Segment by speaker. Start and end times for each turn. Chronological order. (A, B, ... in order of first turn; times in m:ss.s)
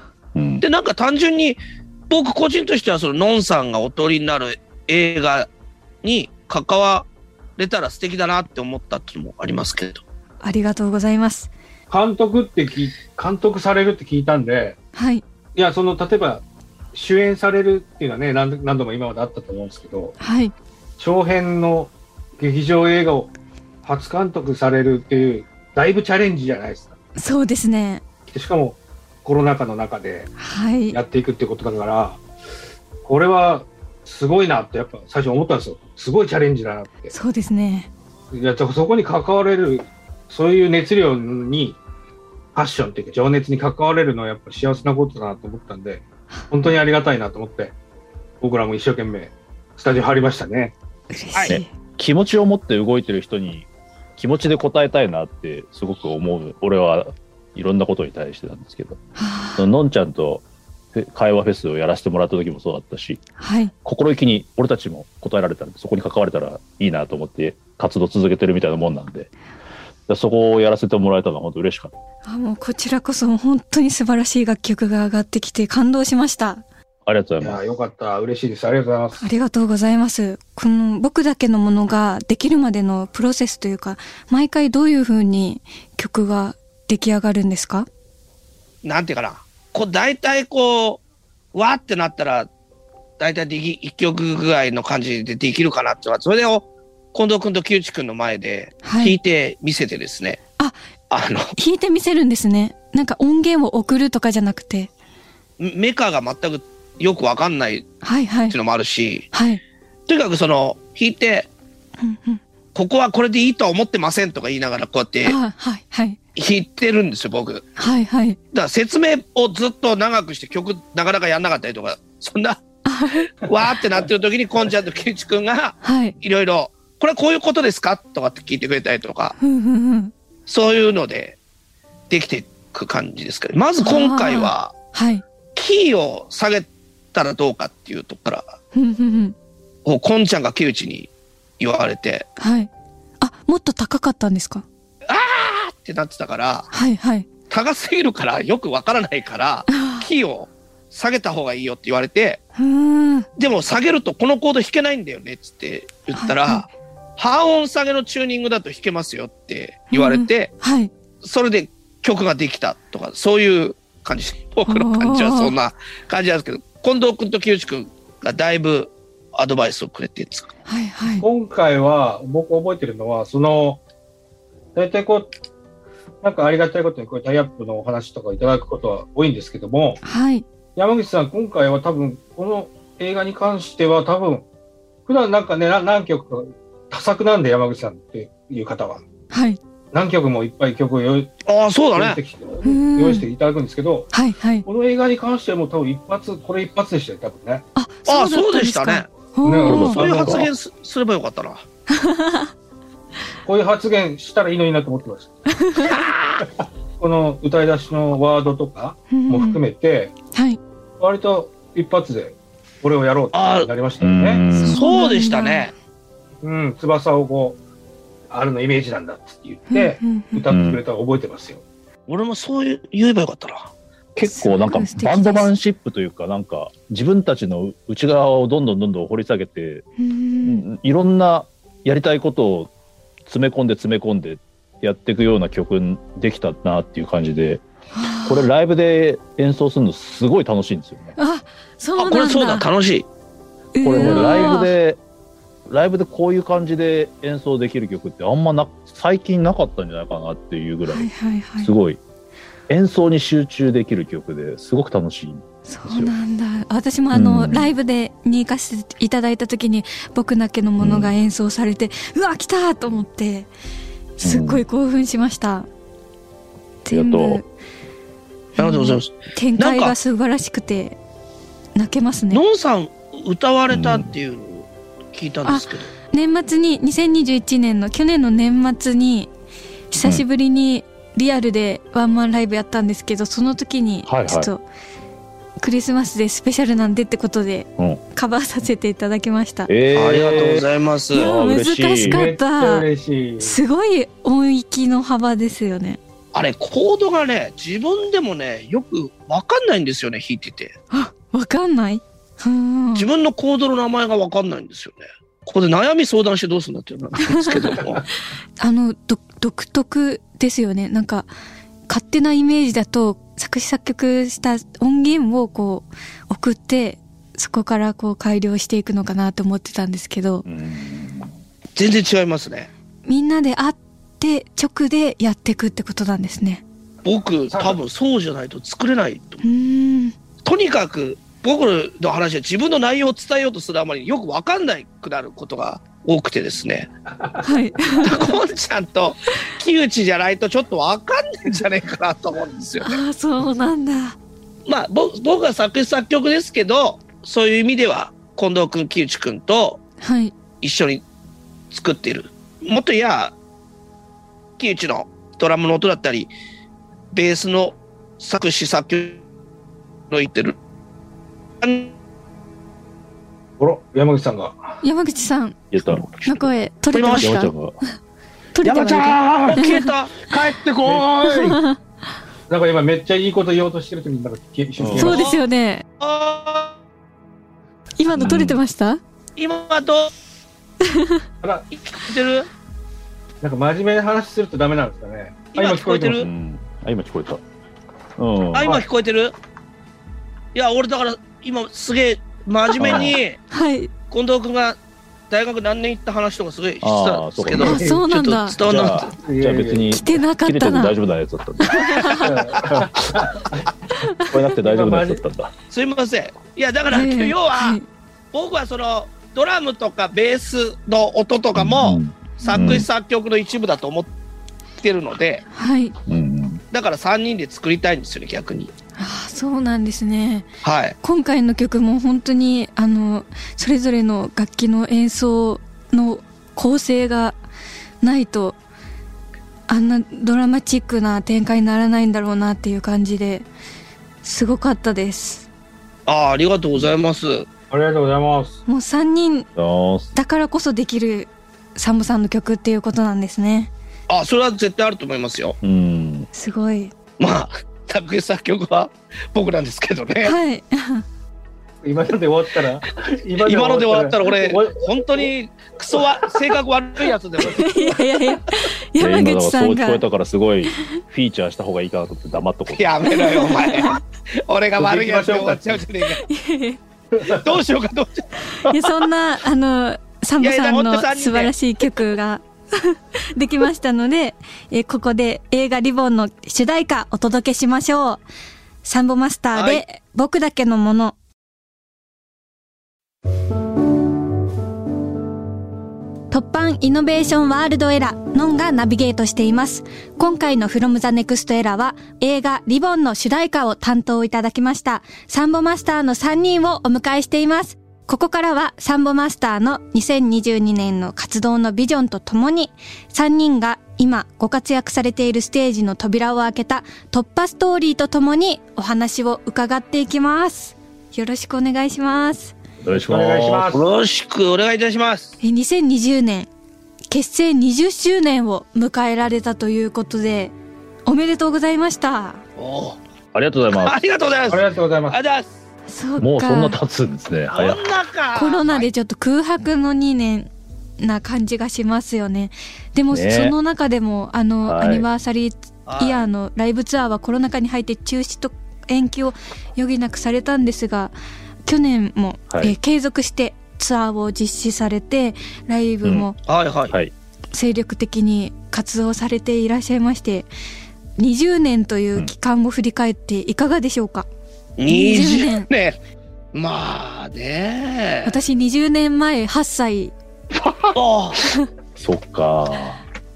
0:00.4-0:00.6 A
0:00.6-0:05.5 B
0:06.0-0:10.0 B
0:10.4-0:11.5 C
0:11.9-0:14.8 D
0:15.0-0:15.2 C
0:15.6-0:16.4 D
0:16.9-0:20.2 D
0:20.2-0:20.5 C
0:21.0-0:23.3 D
0:23.8-0:27.0 D
0:27.2-0:28.0 C
0:28.3-0:30.3 D
0:30.4-0:31.0 C
0:30.9-0:32.2 D
0:33.0-0:37.1 D
0:37.1-0:37.9 C
0:38.3-0:41.8 D
0:42.6-0:47.7 D
0:48.4-0:50.7 D
0:51.1-0:51.7 C
0:51.5-0:59.0 A
0:59.2-0:59.7 C
0:59.6-1:03.2 A
1:03.4-1:03.7 C
1:03.8-1:09.3 A
1:10.1-1:11.9 A
1:12.2-1:16.6 C
1:17.1-1:17.6 A
1:17.4-1:19.2 D
1:19.2-1:27.9 C
1:28.8-1:31.0 B
1:31.5-1:32.5 B
1:33.2-1:40.4 B
1:38.8-1:39.2 C
1:41.1-1:41.6 B
1:41.6-1:44.9 C
1:45.6-1:47.9 B
1:48.0-1:48.6 C
1:48.5-1:49.3 B
1:49.3-1:49.6 C
1:50.1-1:51.5 B
1:52.0-1:52.4 C
1:52.8-1:55.4 B
1:55.2-1:56.2 C
1:56.4-1:57.6 B
1:57.8-1:58.4 C
1:58.5-2:02.6 B
2:02.8-2:03.3 C
2:03.4-2:09.4 B
2:05.8-2:06.2 C
2:09.4-2:10.1 C
2:10.5-2:11.4 B
2:12.1-2:14.7 B
2:13.8-2:15.2 C
2:15.6-2:18.5 B
2:18.7-2:19.4 C
2:19.8-2:22.3 B
2:22.4-2:22.7 C
2:23.2-2:24.6 C
2:25.1-2:26.7 B
2:26.7-2:27.3 C
2:27.5-2:32.4 B
2:29.7-2:30.1 C
2:32.6-2:33.3 C
2:33.4-2:40.5 B
2:36.2-2:36.7 C
2:39.9-2:40.9 C
2:41.2-2:50.5 B
2:44.7-2:45.6 C
2:50.7-2:51.2 C
2:51.2-2:53.8 D
2:54.8-2:55.3 D
2:56.2-3:00.0 D
3:00.0-3:00.4 C
3:00.8-3:04.4 D
3:05.1-3:09.0 D
3:09.3-3:09.6 C
3:09.9-3:11.3 D
3:11.5-3:12.2 B
3:12.0-3:14.1 D
3:12.6-3:13.3 C
3:14.1-3:14.7 C
3:14.6-3:17.6 D
3:17.8-3:20.0 C
3:18.1-3:19.1 B
3:19.4-3:20.5 D
3:19.7-3:20.5 A
3:19.7-3:21.6 B
3:21.9-3:22.5 C
3:23.4-3:25.4 D
3:25.5-3:26.1 C
3:26.4-3:30.1 D
3:29.1-3:29.6 C
3:30.3-3:30.6 C
3:31.0-3:34.4 D
3:33.3-3:33.7 B
3:34.0-3:34.8 A
3:34.6-3:35.7 C
3:34.6-3:35.7 B
3:36.4-3:37.6 D
3:38.3-3:41.6 D
3:39.7-3:40.4 C
3:40.5-3:40.8 A
3:42.1-3:43.7 B
3:44.2-3:49.9 A
3:44.2-3:45.5 C
3:50.0-3:50.6 C
3:50.4-3:52.7 A
3:53.3-3:57.6 A
3:57.9-3:58.5 C
3:58.2-4:01.2 A
4:01.2-4:02.7 C
4:02.0-4:03.1 B
4:03.7-4:04.7 C
4:03.8-4:05.0 A
4:03.9-4:04.6 D
4:05.7-4:12.0 A
4:10.9-4:11.7 C
4:12.7-4:16.2 A
4:15.7-4:23.5 C
4:17.1-4:17.7 A
4:20.8-4:21.2 A
4:24.2-4:25.7 C
4:24.2-4:24.6 A
4:26.8-4:27.4 C
4:26.9-4:27.4 A
4:28.6-4:31.0 C
4:28.6-4:30.0 B
4:31.8-4:32.4 C
4:32.3-4:35.9 B
4:33.7-4:34.1 A
4:35.4-4:39.3 C
4:39.9-4:44.6 C
4:44.0-4:44.5 A
4:45.6-4:49.7 C
4:49.7-4:52.3 A
4:49.9-4:51.3 B
4:50.1-4:50.6 D
4:51.1-4:52.9 C
4:52.0-4:53.6 D
4:53.4-4:56.0 C
4:56.3-5:00.8 B
5:00.9-5:03.1 C
5:03.0-5:08.0 B
5:07.2-5:07.8 C
5:08.6-5:11.3 C
5:11.9-5:20.5 C
5:20.4-5:21.3 A
5:21.8-5:22.7 B
5:23.1-5:26.6 C
5:27.0-5:29.4 B
5:27.5-5:27.8 D
5:29.4-5:30.2 C
5:30.4-5:36.9 B
5:37.1-5:37.5 D
5:37.4-5:38.4 C
5:38.0-5:43.0 B
5:42.8-5:44.2 C
5:44.7-5:49.8 B
5:50.0-5:50.3 C
5:50.6-5:51.0 B
5:51.7-5:53.3 B
5:54.6-5:56.3 B
5:57.1-5:59.2 B
6:00.1-6:00.6 B
6:01.6-6:01.9 B
6:03.6-6:04.8 D
6:04.8-6:07.5 C
6:05.7-6:06.5 A
6:06.9-6:07.3 B
6:07.2-6:07.8 A
6:08.6-6:09.9 C
6:08.6-6:11.1 B
6:10.8-6:11.6 D
6:11.3-6:11.8 C
6:12.5-6:15.3 D
6:14.8-6:15.2 A
6:14.9-6:15.8 C
6:15.0-6:15.4 B
6:16.0-6:16.8 B
6:18.0-6:19.0 C
6:18.1-6:18.6 A
6:19.4-6:20.1 B
6:20.8-6:21.2 C
6:21.7-6:22.5 B
6:23.4-6:26.2 D
6:25.5-6:26.3 B
6:26.2-6:27.4 A
6:28.2-6:28.8 A
6:28.5-6:29.4 B
6:30.5-6:33.4 B
6:32.8-6:33.2 A
6:33.5-6:33.9 C
6:34.1-6:34.8 B
6:35.3-6:39.1 B
6:36.8-6:37.8 A
6:37.6-6:38.6 C
6:37.6-6:38.0 D
6:38.6-6:43.2 A
6:39.2-6:40.0 D
6:39.9-6:41.0 C
6:41.7-6:42.3 C
6:42.2-6:43.7 D
6:42.4-6:42.6 B
6:44.0-6:44.3 C
6:44.3-6:45.5 A
6:44.6-6:45.2 D
6:45.7-6:47.8 B
6:46.9-6:47.9 C
6:48.3-6:54.1 B
6:51.6-6:52.9 A
6:52.4-6:52.8 C
6:54.8-6:55.4 B
6:55.5-6:56.0 C
6:56.1-6:56.6 A
6:56.7-6:58.7 B
6:59.0-7:00.5 C
7:00.6-7:01.0 B
7:01.0-7:07.4 C
7:08.0-7:08.6 C
7:09.7-7:13.5 C
7:14.2-7:15.5 C
7:16.1-7:17.5 B
7:17.7-7:18.6 D
7:18.7-7:19.5 C
7:19.6-7:20.1 A
7:20.1-7:23.7 C
7:24.1-7:25.6 B
7:25.6-7:26.3 A
7:26.3-7:26.9 C
7:27.2-7:30.4 B
7:30.2-7:31.0 C
7:31.8-7:35.3 D
7:33.4-7:38.0 B
7:35.9-7:36.5 D
7:37.4-7:40.0 C
7:39.0-7:43.0 A
7:42.7-7:46.2 B
7:43.0-7:44.0 C
7:44.8-7:45.8 D
7:46.2-7:46.8 C
7:47.1-7:47.4 D
7:47.3-7:48.3 B
7:48.6-7:58.2 C
7:50.4-7:51.6 B
7:58.8-8:01.2 C
7:59.5-7:59.8 B
8:06.3-8:32.6 C
8:32.8-8:33.8 A
8:32.9-8:33.8 D
8:33.7-8:35.4 B
8:35.4-8:36.5 C
8:37.1-8:40.6 C
8:41.1-8:42.4 C
8:42.6-8:43.0 B
8:43.3-8:44.0 A
8:43.8-8:45.5 B
8:44.5-8:45.2 D
8:45.9-8:46.8 C
8:46.2-8:47.8 A
8:47.5-8:48.9 B
8:48.4-9:01.1 C
8:53.1-8:53.6 A
8:54.7-8:55.1 A
8:55.9-8:56.2 B
9:01.7-9:06.4 C
9:02.5-9:02.8 A
9:06.0-9:06.3 A
9:06.5-9:07.0 B
9:07.5-9:10.5 C
9:11.2-9:14.3 C
9:14.8-9:16.0 B
9:14.9-9:15.7 C
9:16.5-9:18.4 B
9:18.2-9:20.1 C
9:20.6-9:20.9 A
9:21.0-9:21.4 B
9:22.0-9:23.0 A